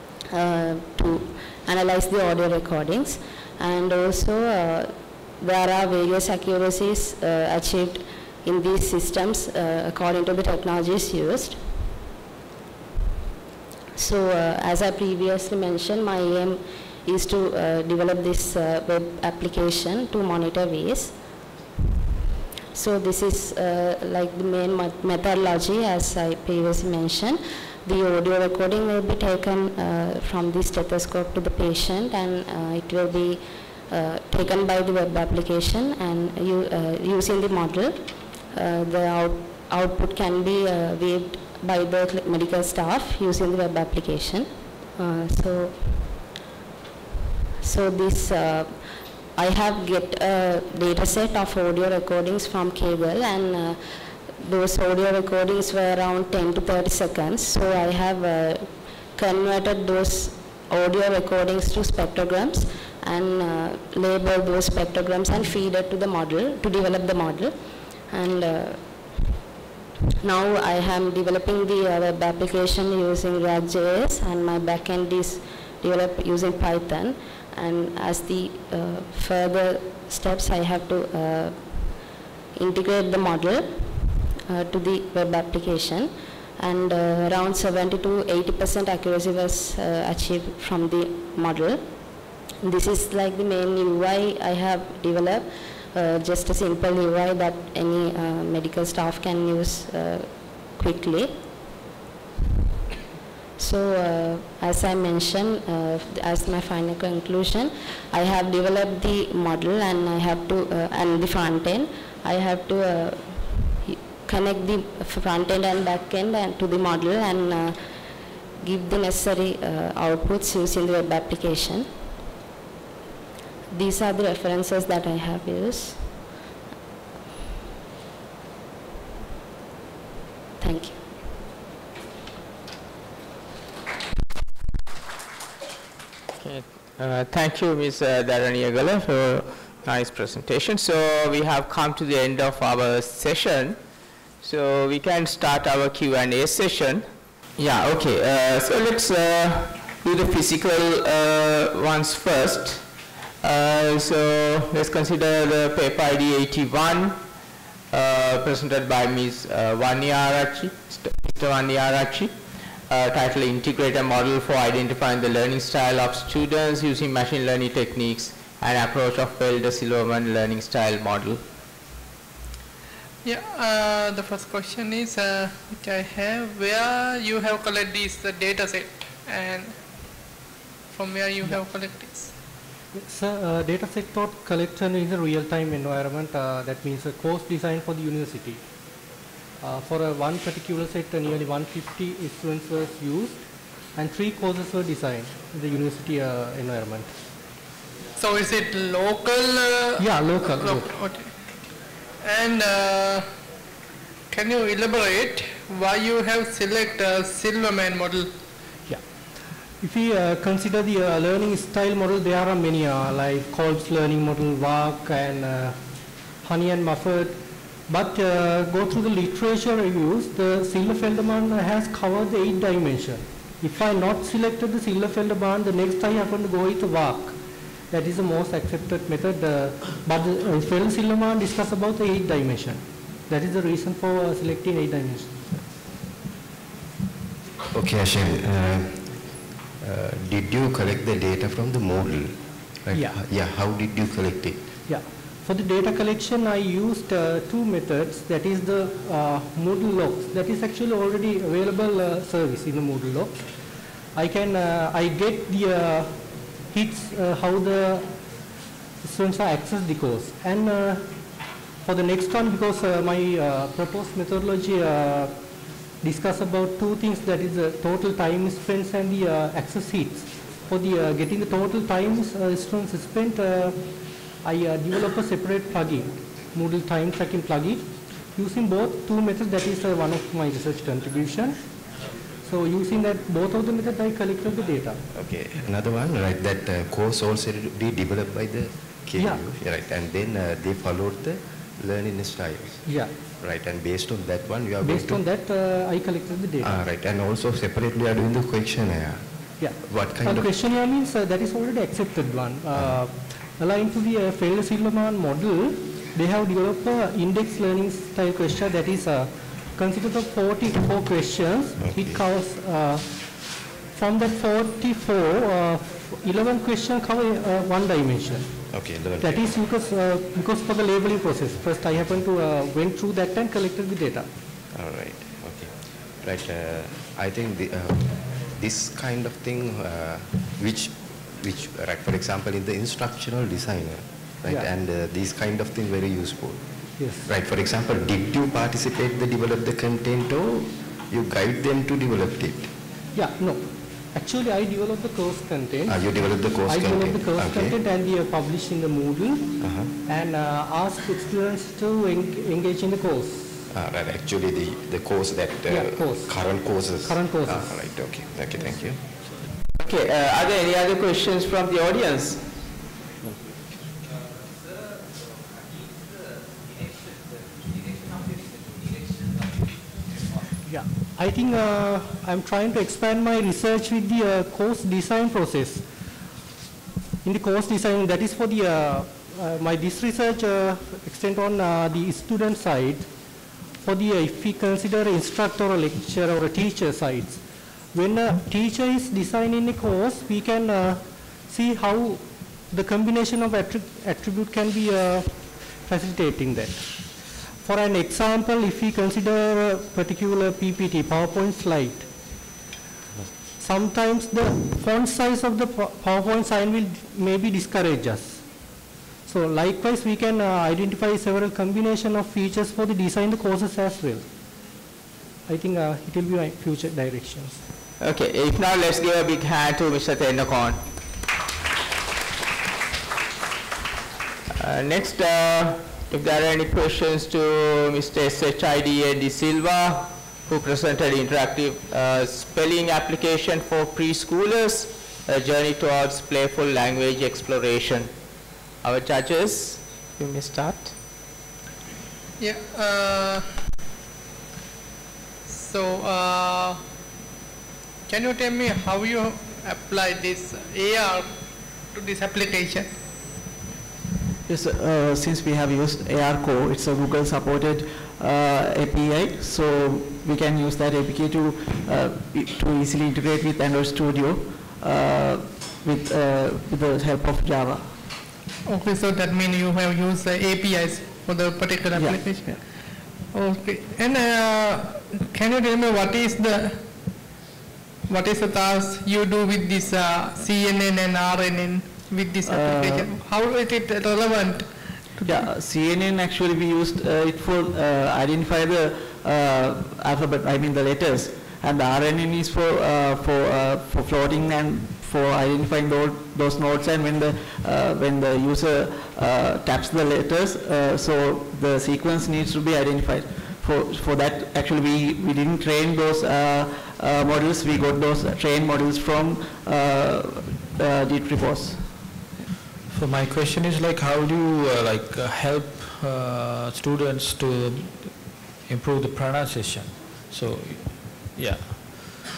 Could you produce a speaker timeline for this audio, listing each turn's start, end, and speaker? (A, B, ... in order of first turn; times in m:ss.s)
0:00.3-0:11.6 A
0:14.0-0:21.1 A
0:22.7-0:46.1 A
0:47.6-0:48.8 A
0:49.4-0:53.8 A
0:54.4-1:07.5 A
1:08.1-1:08.8 A
1:10.2-1:21.9 A
1:22.6-1:31.8 A
1:32.6-1:41.3 A
1:43.6-1:57.8 A
1:58.6-2:01.9 A
2:03.7-2:06.0 A
2:10.6-2:11.0 A
2:16.4-2:23.8 B
2:24.4-2:27.0 B
2:27.6-2:32.9 B
2:33.4-2:37.2 B
2:37.9-2:42.3 B
2:42.9-2:51.4 B
2:53.2-2:59.7 C
3:00.9-3:02.3 C
3:02.9-3:08.6 D
3:09.6-3:13.4 D
3:14.0-3:17.1 D
3:18.2-3:21.3 C
3:20.0-3:21.0 D
3:22.2-3:23.3 C
3:24.3-3:28.3 C
3:29.8-3:35.8 D
3:36.4-3:47.4 D
3:47.9-3:55.6 D
3:57.7-4:04.6 E
4:02.9-4:03.2 D
4:04.9-4:13.4 D
4:14.1-4:18.1 D
4:19.0-4:21.1 D
4:21.8-4:25.3 D
4:26.0-4:33.8 D
4:34.4-4:41.6 D
4:42.4-4:45.0 D
4:45.1-4:52.8 E
4:49.2-4:49.4 D
4:52.8-4:53.1 D
4:53.4-4:55.2 E
4:54.8-4:56.8 D
4:56.6-4:59.2 E
4:59.6-5:18.6 D
4:59.8-5:00.5 E
5:11.8-5:12.2 E
5:18.7-5:19.6 E
5:19.2-5:24.3 D
5:24.7-5:25.7 E
5:26.2-5:36.6 E
5:37.0-5:37.2 D
5:37.2-5:42.7 E
5:43.2-5:53.4 D
5:45.9-5:47.8 E
5:49.6-5:49.9 E
5:53.7-5:59.0 E
5:55.7-5:57.9 D
5:58.6-5:58.9 D
5:59.8-6:02.4 B
6:10.6-6:15.8 D
6:17.2-6:23.1 D
6:23.8-6:27.4 D
6:27.9-6:42.1 D
6:43.6-6:48.4 D
6:49.2-6:54.2 D
6:55.5-6:57.6 D
6:58.0-7:00.8 B
7:04.6-7:18.1 B
7:18.8-7:20.9 B
7:22.4-7:23.5 C
7:25.5-7:26.8 C
7:28.1-7:31.3 C
7:31.9-7:32.9 C
7:34.5-7:47.9 F
7:48.6-7:52.6 C
7:51.9-7:52.6 F
7:53.3-7:56.8 C
7:58.1-8:05.4 C
8:02.4-8:03.2 F
8:05.2-8:32.2 F
8:32.9-8:42.1 G